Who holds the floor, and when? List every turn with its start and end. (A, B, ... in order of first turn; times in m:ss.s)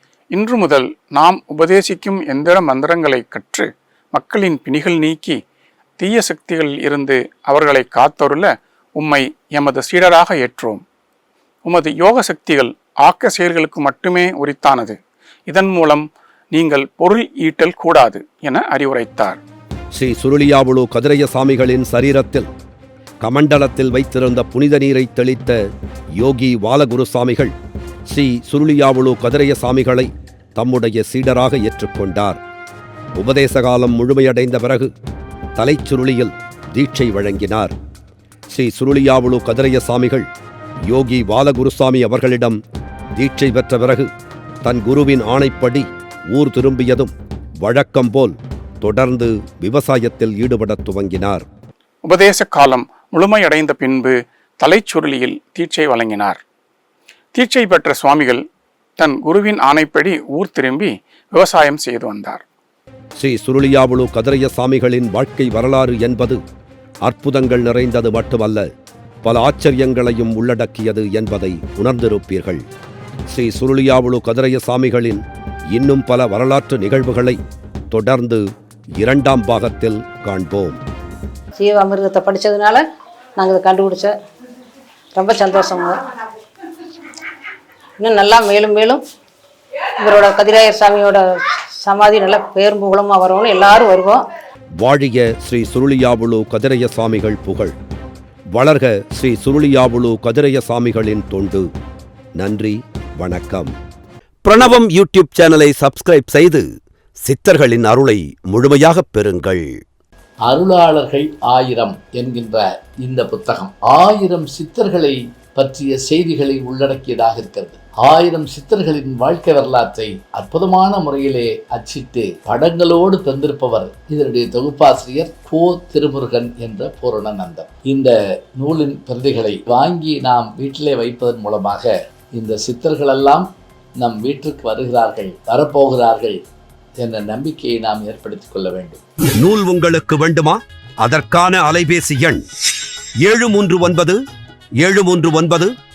0:00.3-0:05.4 A
0:06.0-0:10.8 A
0:11.6-0:15.0 A
0:15.5-0:19.4 A
0:19.9-0:22.5 B
0:23.2-0:25.6 B
0:26.2-0:27.6 B
0:28.1-0:32.4 B
0:33.2-0:34.9 B
0:35.6-0:37.7 B
0:38.5-0:40.3 B
0:40.9-0:42.6 B
0:43.2-0:44.1 B
0:44.6-0:51.4 B
0:52.0-0:56.4 A
0:57.4-0:58.4 A
0:59.0-1:02.4 A
1:03.2-1:06.4 B
1:07.0-1:08.7 B
1:09.2-1:12.6 B
1:13.3-1:15.2 B
1:15.7-1:17.4 B
1:17.9-1:18.5 B
1:19.0-1:20.8 B
1:21.6-1:22.8 C
1:23.4-1:24.2 C
1:25.1-1:26.0 C
1:28.0-1:29.0 C
1:30.0-1:34.3 C
1:34.8-1:37.8 B
1:38.5-1:41.7 B
1:42.4-1:43.7 B
1:44.4-1:46.7 B
1:47.2-1:49.8 B
1:50.4-2:16.4 D
2:17.0-2:19.0 D
2:19.4-2:22.4 B
2:23.2-2:24.2 B
2:24.8-2:25.7 B